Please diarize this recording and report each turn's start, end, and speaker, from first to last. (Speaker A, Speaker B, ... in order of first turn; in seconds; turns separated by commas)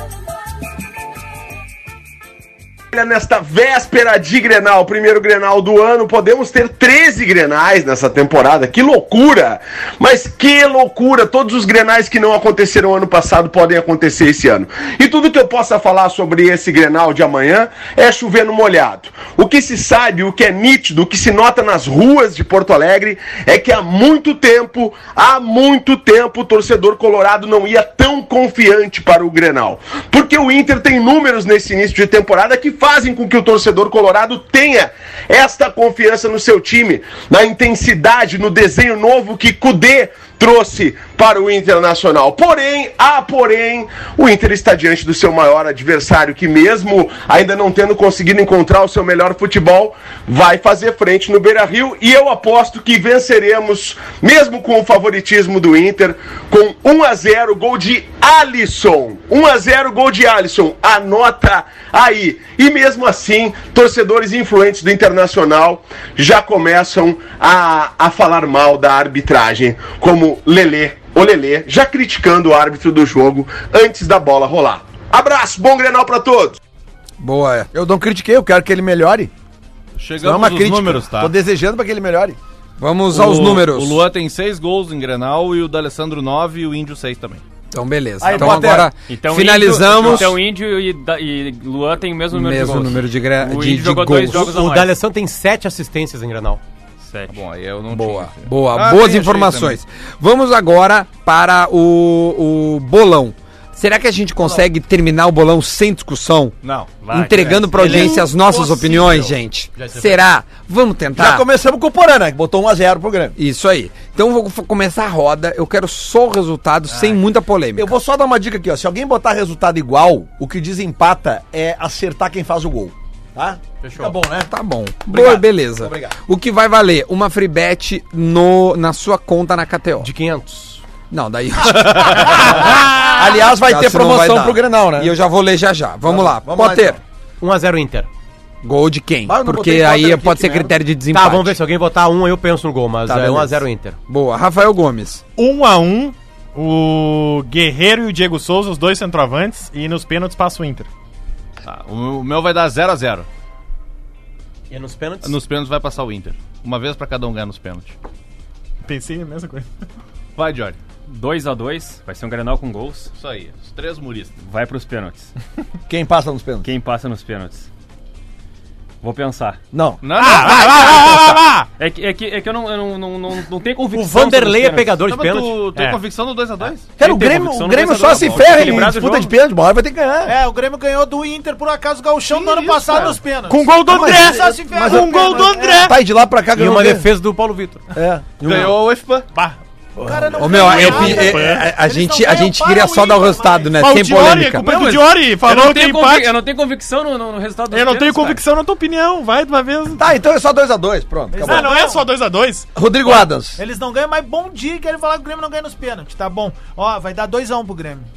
Speaker A: 2.9-76.6, Speaker B: 77.2-77.7, Speaker C: 77.7-79.3, Speaker D: 80.0-81.3, Speaker C: 80.2-82.4, Speaker B: 82.8-84.0, Speaker D: 83.1-87.4, Speaker B: 87.7-90.4, Speaker C: 88.2-88.9, Speaker E: 89.1-94.9, Speaker C: 89.9-90.3, Speaker B: 92.3-94.5, Speaker F: 94.3-96.6, Speaker E: 97.0-97.3, Speaker D: 97.3-99.8, Speaker B: 97.9-106.6, Speaker C: 104.4-104.7, Speaker D: 106.6-106.9, Speaker E: 107.0-107.6, Speaker B: 107.1-111.5, Speaker F: 107.4-110.2, Speaker C: 107.7-109.1, Speaker C: 111.2-113.3, Speaker B: 113.4-117.9, Speaker C: 117.8-124.5, Speaker F: 123.8-124.2, Speaker B: 124.5-130.1, Speaker C: 125.1-126.1, Speaker F: 130.0-130.8, Speaker B: 131.1-137.0, Speaker C: 133.0-135.1, Speaker C: 136.0-137.0, Speaker F: 137.4-138.1, Speaker B: 138.6-141.6, Speaker C: 139.3-140.8, Speaker F: 141.1-144.0, Speaker B: 143.1-145.2, Speaker G: 145.4-150.9, Speaker D: 151.6-153.3, Speaker F: 154.7-155.4, Speaker D: 155.2-158.0, Speaker G: 158.8-159.7, Speaker D: 160.4-160.8, Speaker E: 161.1-163.1, Speaker D: 163.2-164.4, Speaker E: 164.4-165.3, Speaker C: 165.9-166.7, Speaker E: 166.6-167.7, Speaker E: 169.0-169.6, Speaker C: 169.7-170.0, Speaker D: 170.0-171.4, Speaker G: 170.1-171.7, Speaker E: 171.8-175.0, Speaker F: 173.9-175.6, Speaker D: 175.1-176.9, Speaker C: 177.0-180.4, Speaker E: 177.0-179.3, Speaker D: 178.1-178.7, Speaker H: 180.2-185.9, Speaker D: 182.3-183.2, Speaker G: 183.5-186.0, Speaker C: 183.9-187.1, Speaker F: 186.5-187.9, Speaker C: 187.9-188.8, Speaker D: 188.4-189.3, Speaker C: 190.0-191.4, Speaker H: 190.0-193.9, Speaker B: 190.4-194.8, Speaker G: 190.8-191.6, Speaker G: 193.8-196.3, Speaker E: 194.6-198.4, Speaker G: 197.7-200.0, Speaker C: 200.0-201.7, Speaker H: 201.3-202.1, Speaker G: 201.4-202.7, Speaker C: 202.8-203.6, Speaker H: 203.1-208.1